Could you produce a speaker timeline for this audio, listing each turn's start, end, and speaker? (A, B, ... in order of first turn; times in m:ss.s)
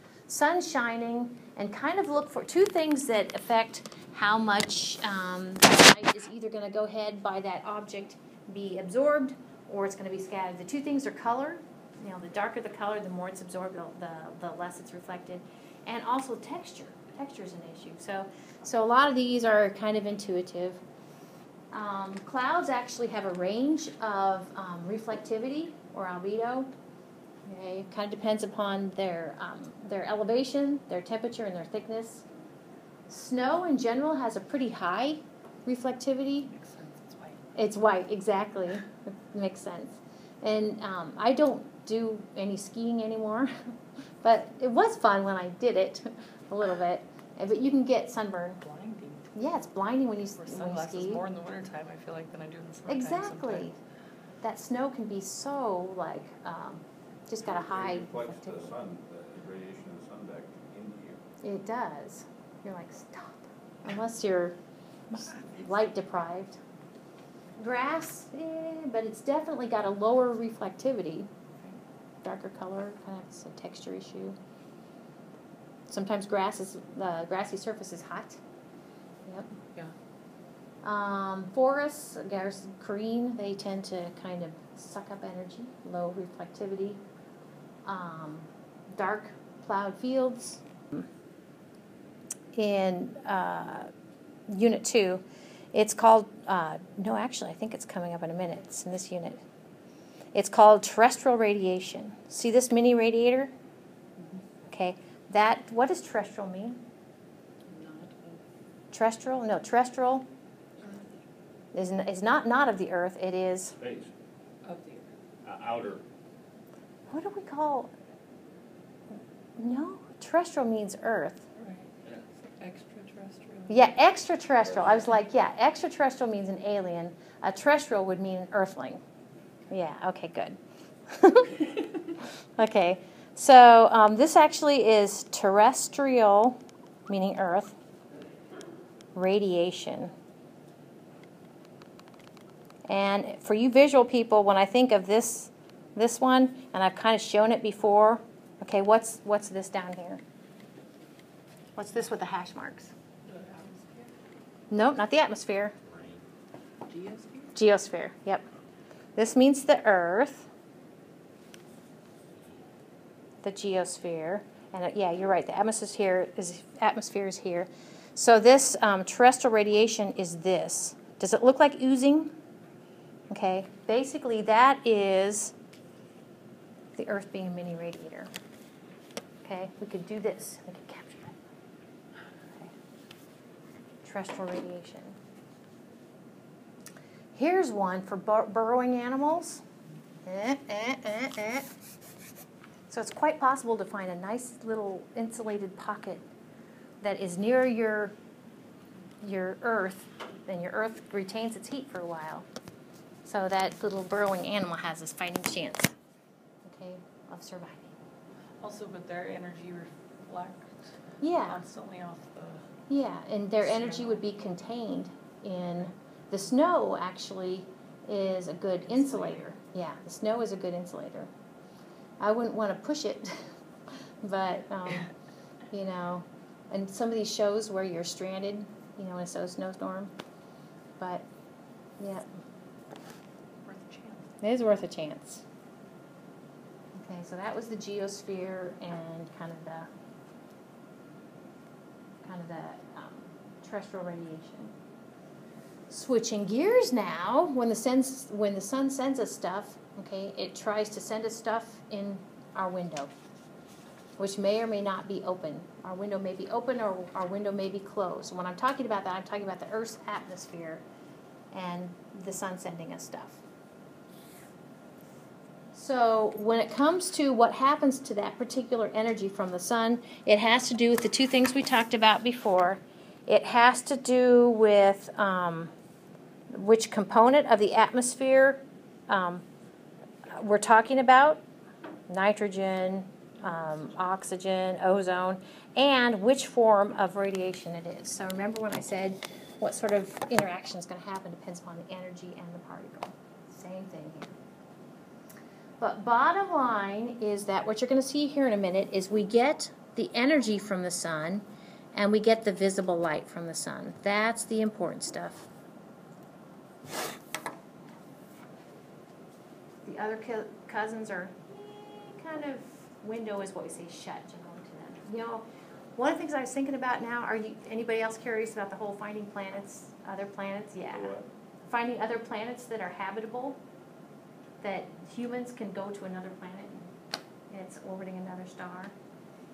0:00.3-0:20.8 A
0:21.7-0:26.7 A
0:27.4-0:32.2 A
0:33.1-0:36.5 A
0:36.5-0:37.4 B
0:37.5-0:43.6 A
0:44.2-0:48.6 A
0:48.6-0:49.3 B
0:49.3-0:51.2 A
0:50.4-0:53.7 B
0:52.8-0:53.8 A
0:54.4-0:58.7 A
0:57.4-1:01.2 C
1:01.4-1:04.6 A
1:05.1-1:06.6 A
1:07.6-1:11.3 A
1:12.2-1:14.4 A
1:15.9-1:18.4 A
1:19.2-1:19.5 A
1:20.8-1:27.0 A
1:27.8-1:31.1 A
1:32.5-1:33.9 A
1:34.5-1:39.4 A
1:40.3-1:43.5 A
1:44.7-1:46.8 A
1:47.7-1:48.4 B
1:48.9-1:50.2 A
1:50.8-1:51.2 B
1:51.7-1:53.7 A
1:53.8-1:54.1 C
1:54.6-1:55.1 B
1:55.4-1:56.0 C
1:57.1-1:57.9 A
1:59.6-2:01.4 A
2:01.6-2:01.9 B
2:02.6-2:03.9 B
2:03.7-2:09.0 A
2:09.7-2:11.6 A
2:12.6-2:17.7 A
2:19.1-2:20.1 A
2:22.9-2:30.2 A
2:31.8-2:32.9 A
2:33.2-2:34.1 B
2:34.7-2:35.8 A
2:35.9-2:36.2 C
2:36.9-2:37.5 B
2:37.6-2:38.4 A
2:39.2-2:40.5 A
2:43.4-2:52.3 A
2:53.3-2:55.5 A
2:57.0-2:58.3 A
2:59.4-3:01.4 A
3:04.0-3:05.2 A
3:07.3-3:09.6 A
3:10.2-3:11.7 A
3:12.9-3:16.2 A
3:17.0-3:18.1 A
3:19.2-3:22.4 A
3:23.2-3:25.9 A
3:26.6-3:27.9 A
3:28.6-3:32.7 B
3:31.2-3:31.6 A
3:32.9-3:41.3 A
3:38.9-3:39.4 B
3:42.2-3:43.5 A
3:44.2-3:45.1 A
3:45.7-3:50.1 A
3:51.0-3:51.2 A
3:52.0-3:52.2 A
3:53.6-3:54.4 B
3:54.4-3:55.4 A
3:57.0-3:59.9 A
4:02.2-4:04.7 A
4:05.9-4:13.1 A
4:14.2-4:20.8 A
4:21.5-4:23.4 A
4:25.7-4:35.7 A
4:36.5-4:39.4 A
4:40.3-4:41.4 A
4:42.1-4:54.4 A
4:55.8-5:05.5 A
5:09.8-5:15.4 A
5:16.0-5:23.6 A
5:21.0-5:21.2 C
5:24.6-5:26.9 A
5:27.5-5:28.9 A